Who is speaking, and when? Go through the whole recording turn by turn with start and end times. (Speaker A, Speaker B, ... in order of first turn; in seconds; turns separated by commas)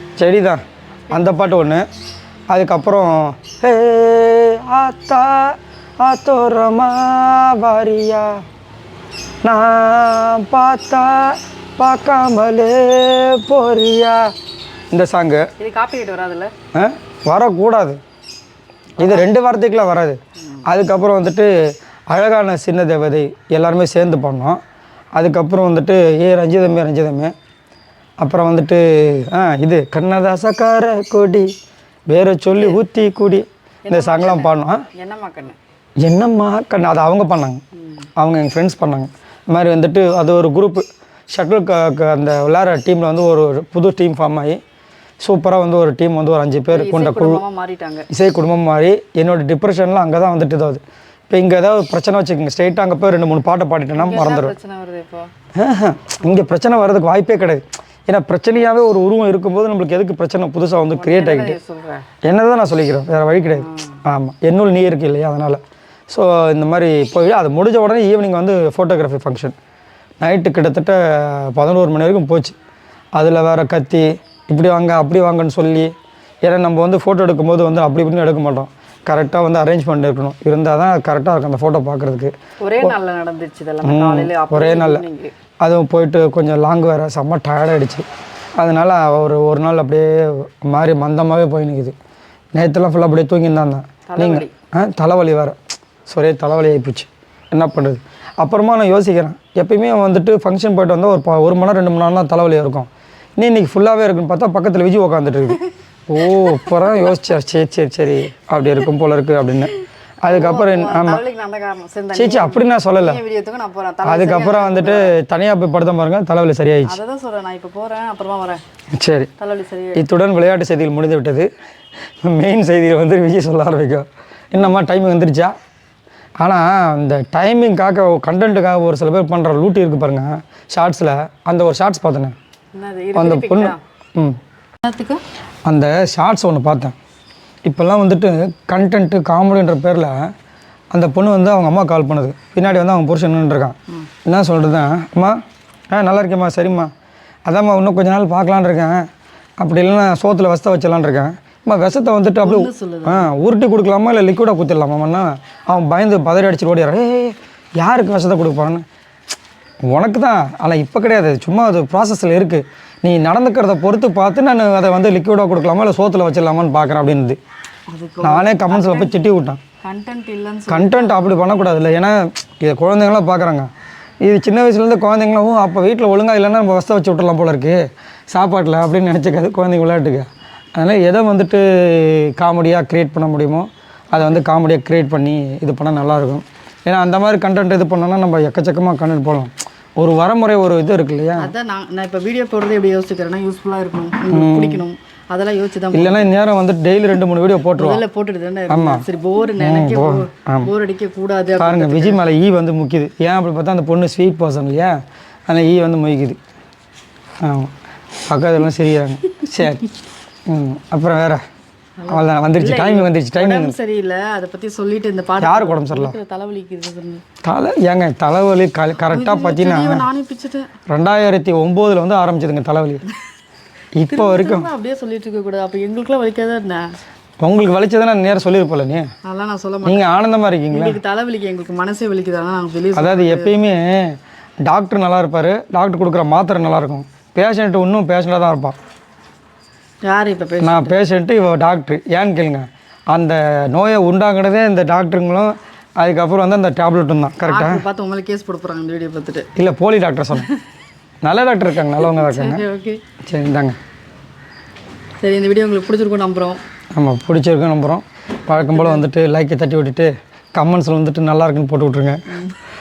Speaker A: 0.2-1.9, Speaker B: 1.1-1.4, Speaker A: 2.5-8.4, Speaker A: 9.4-14.3, Speaker A: 14.9-15.4, Speaker B: 15.6-16.5, Speaker A: 16.7-18.0, Speaker B: 19.0-19.3, Speaker A: 19.0-21.5, Speaker A: 22.1-24.6, Speaker A: 25.1-27.3, Speaker A: 28.2-31.5, Speaker A: 32.1-34.8, Speaker B: 32.5-32.8, Speaker B: 33.9-35.6, Speaker A: 36.0-37.6, Speaker B: 37.8-38.0, Speaker A: 38.2-44.6, Speaker A: 45.2-47.4, Speaker B: 46.7-48.1, Speaker A: 48.1-54.5, Speaker B: 53.9-55.3, Speaker A: 55.5-61.6, Speaker B: 60.9-62.1, Speaker A: 62.2-69.5, Speaker B: 63.5-64.0, Speaker A: 70.2-72.5, Speaker A: 73.1-82.9, Speaker B: 82.6-85.3, Speaker A: 83.8-85.0, Speaker A: 85.6-88.0, Speaker A: 88.6-91.9, Speaker A: 92.5-111.2, Speaker B: 94.1-94.5, Speaker B: 106.3-106.7, Speaker B: 110.2-115.1, Speaker A: 112.1-113.2, Speaker A: 114.0-117.0, Speaker B: 116.8-118.6, Speaker A: 119.0-119.3, Speaker B: 119.4-120.0, Speaker A: 120.0-121.5, Speaker A: 122.2-125.5, Speaker A: 126.4-132.3, Speaker B: 132.7-133.8, Speaker A: 133.1-134.4, Speaker B: 134.8-135.2, Speaker A: 135.7-136.9, Speaker A: 137.6-140.3, Speaker A: 140.9-145.4, Speaker A: 145.9-146.9, Speaker A: 147.4-149.1, Speaker A: 149.6-158.8, Speaker B: 152.4-153.3, Speaker A: 159.9-167.4, Speaker B: 167.9-169.1, Speaker A: 168.2-169.6, Speaker B: 169.8-171.4, Speaker A: 170.7-173.7, Speaker A: 174.2-177.8, Speaker A: 178.3-191.5, Speaker B: 184.1-184.4, Speaker B: 191.4-196.3, Speaker A: 194.3-194.8, Speaker A: 195.9-198.0, Speaker B: 197.7-202.2, Speaker A: 198.7-199.0, Speaker A: 199.6-200.7, Speaker A: 201.6-206.4, Speaker A: 207.4-207.7, Speaker A: 208.2-209.8, Speaker A: 210.5-211.4, Speaker B: 212.0-217.2, Speaker A: 212.1-213.8, Speaker A: 215.4-216.2, Speaker A: 217.4-220.1, Speaker B: 219.1-220.7, Speaker A: 220.9-223.0, Speaker A: 223.9-224.7, Speaker B: 224.1-226.8, Speaker A: 227.4-229.1, Speaker B: 229.2-230.1, Speaker A: 229.8-231.0, Speaker B: 230.7-233.5, Speaker A: 232.9-238.8, Speaker B: 240.0-240.9, Speaker A: 240.6-247.8, Speaker B: 247.5-249.5, Speaker A: 249.6-250.5, Speaker A: 251.2-252.6, Speaker B: 251.8-253.0, Speaker A: 253.3-253.8, Speaker B: 255.2-256.6, Speaker A: 256.9-262.2, Speaker B: 258.6-259.0